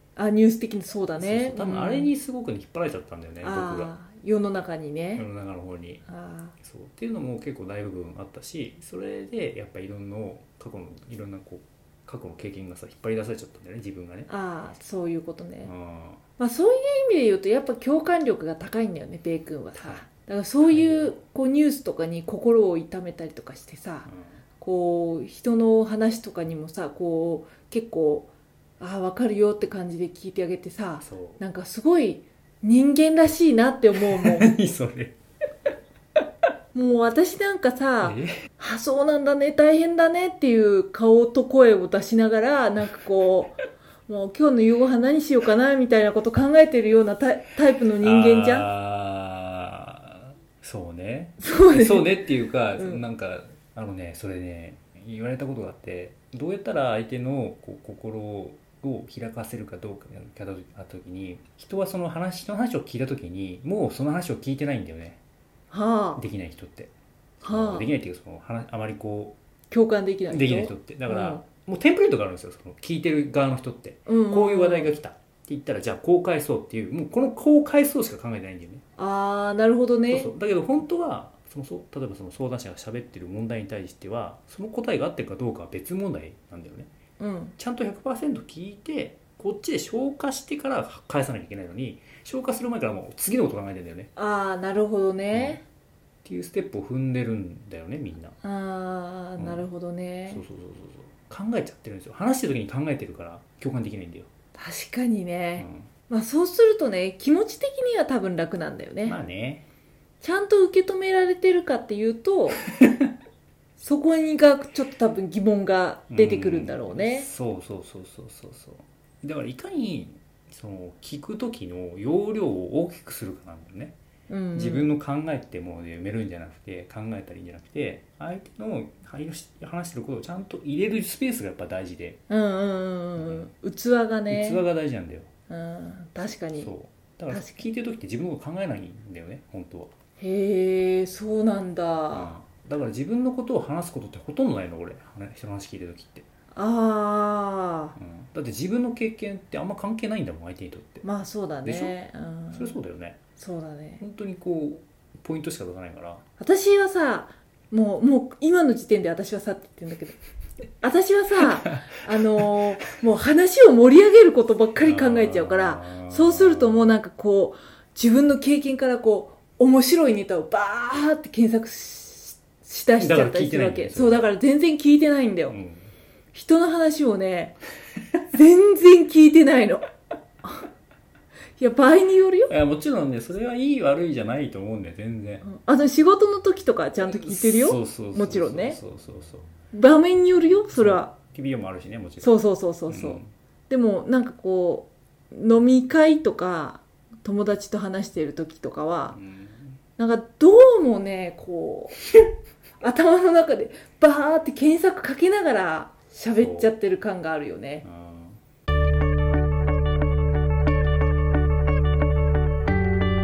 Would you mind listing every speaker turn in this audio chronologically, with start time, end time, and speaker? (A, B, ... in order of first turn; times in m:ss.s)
0:00.2-0:02.1 A
0:01.2-0:03.9 B
0:03.4-0:05.2 A
0:05.2-0:06.0 B
0:06.1-0:06.5 A
0:06.6-0:14.3 B
0:14.3-0:15.7 A
0:15.6-0:16.2 B
0:16.4-0:24.1 A
0:19.8-0:20.0 B
0:20.6-0:21.2 B
0:24.0-0:24.4 B
0:24.6-0:28.3 A
0:28.8-0:34.5 A
0:31.0-0:31.4 B
0:34.0-0:35.1 B
0:36.7-0:48.7 A
0:38.0-0:38.4 B
0:48.0-1:05.2 B
0:51.4-0:52.1 A
0:52.8-0:53.0 A
1:05.7-1:06.2 A
1:06.2-1:06.9 B
1:07.4-1:07.9 A
1:07.4-1:09.4 B
1:09.7-1:11.4 A
1:10.3-1:18.8 B
1:14.1-1:14.9 A
1:19.0-1:20.3 A
1:20.1-1:26.9 B
1:27.2-1:27.5 A
1:27.6-1:34.1 B
1:34.2-1:35.6 A
1:35.3-1:35.6 B
1:36.2-1:38.4 B
1:38.4-1:40.4 A
1:39.4-1:39.6 B
1:40.3-1:44.3 B
1:44.6-1:49.2 A
1:45.6-1:45.9 B
1:49.0-1:49.6 B
1:50.2-1:52.6 A
1:52.8-1:53.1 B
1:53.8-1:57.3 A
1:56.1-2:03.9 B
2:04.3-2:04.9 A
2:04.5-2:12.2 B
2:12.3-2:14.6 A
2:13.2-2:13.5 B
2:14.3-2:15.3 B
2:15.5-2:16.7 A
2:16.6-2:19.9 B
2:17.3-2:17.6 A
2:20.2-2:22.3 A
2:22.1-2:26.2 B
2:26.5-2:28.0 A
2:28.0-2:31.0 B
2:31.0-2:32.8 A
2:31.6-2:31.9 B
2:32.5-2:33.2 B
2:33.4-2:34.0 A
2:34.0-2:36.2 B
2:36.4-2:40.2 A
2:40.8-2:55.6 A
2:44.8-2:46.9 B
2:53.0-2:54.3 B
2:55.5-2:55.9 B
2:56.3-2:57.6 A
2:58.3-2:59.9 A
3:01.6-3:02.5 A
3:02.5-3:05.4 B
3:05.4-3:08.8 A
3:07.0-3:09.5 B
3:09.7-3:11.1 A
3:10.7-3:12.3 B
3:12.2-3:19.2 A
3:12.9-3:13.3 B
3:19.1-3:19.8 B
3:20.0-3:22.0 A
3:22.8-3:27.8 A
3:26.4-3:26.7 B
3:27.8-3:28.4 B